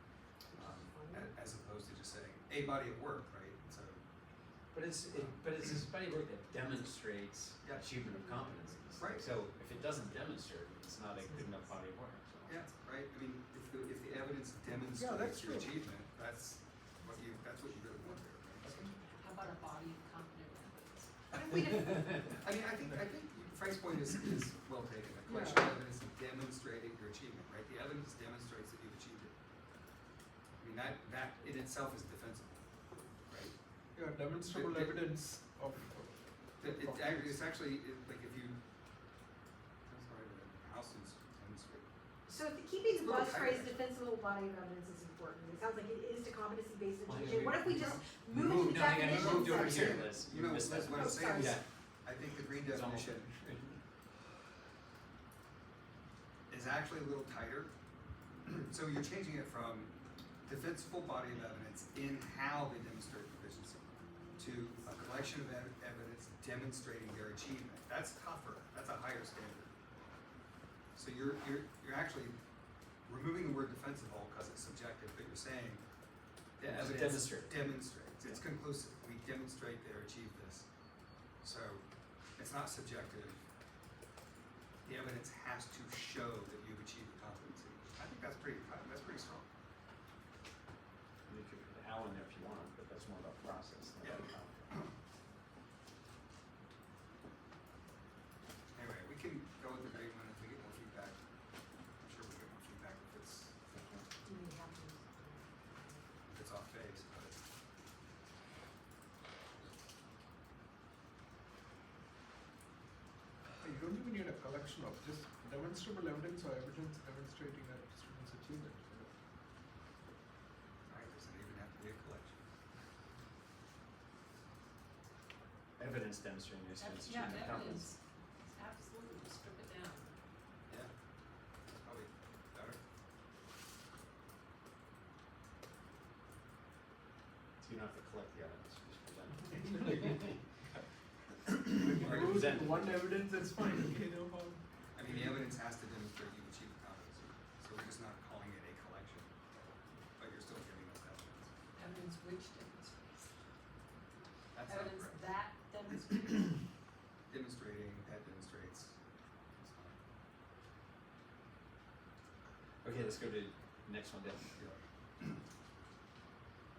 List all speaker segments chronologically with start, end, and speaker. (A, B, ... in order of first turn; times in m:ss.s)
0:00.5-0:01.3 A
0:00.5-0:04.0 B
0:04.7-0:12.7 C
0:05.1-0:05.4 B
0:09.0-0:09.6 B
0:12.5-0:19.0 B
0:14.9-0:15.7 D
0:19.2-0:21.1 E
0:21.3-0:22.2 A
0:21.6-0:29.3 B
0:22.8-0:23.2 D
0:30.6-0:32.6 B
0:33.3-0:33.5 B
0:33.9-0:37.4 D
0:34.5-0:35.0 B
0:36.6-0:38.6 B
0:39.8-0:41.8 B
0:42.3-0:50.1 A
0:43.0-0:43.8 B
0:47.0-0:51.6 C
0:49.1-0:53.3 B
0:50.9-0:51.6 A
0:52.5-0:53.8 C
0:56.5-0:57.7 B
0:58.4-0:59.9 B
1:00.4-1:09.7 B
1:10.9-1:12.4 B
1:13.0-1:15.8 B
1:16.6-1:20.7 B
1:16.6-1:17.6 C
1:21.4-1:21.8 B
1:22.4-1:23.4 B
1:24.8-1:29.5 B
1:31.3-1:34.8 C
1:34.0-1:34.9 B
1:38.7-1:41.2 B
1:42.0-1:43.6 B
1:43.7-1:44.0 C
1:44.2-1:46.0 A
1:46.2-1:47.4 B
1:53.6-1:59.1 D
2:00.9-2:02.4 B
2:05.8-2:07.9 C
2:06.8-2:10.1 E
2:11.8-2:12.8 B
2:17.6-2:20.4 C
2:21.7-2:23.0 C
2:21.7-2:25.4 D
2:21.9-2:22.7 B
2:24.9-2:29.3 B
2:30.2-2:31.5 B
2:31.8-2:33.3 E
2:34.5-2:35.3 B
2:34.7-2:36.5 E
2:37.3-2:39.0 B
2:39.5-2:40.0 B
2:42.8-2:44.6 C
2:44.6-2:45.4 B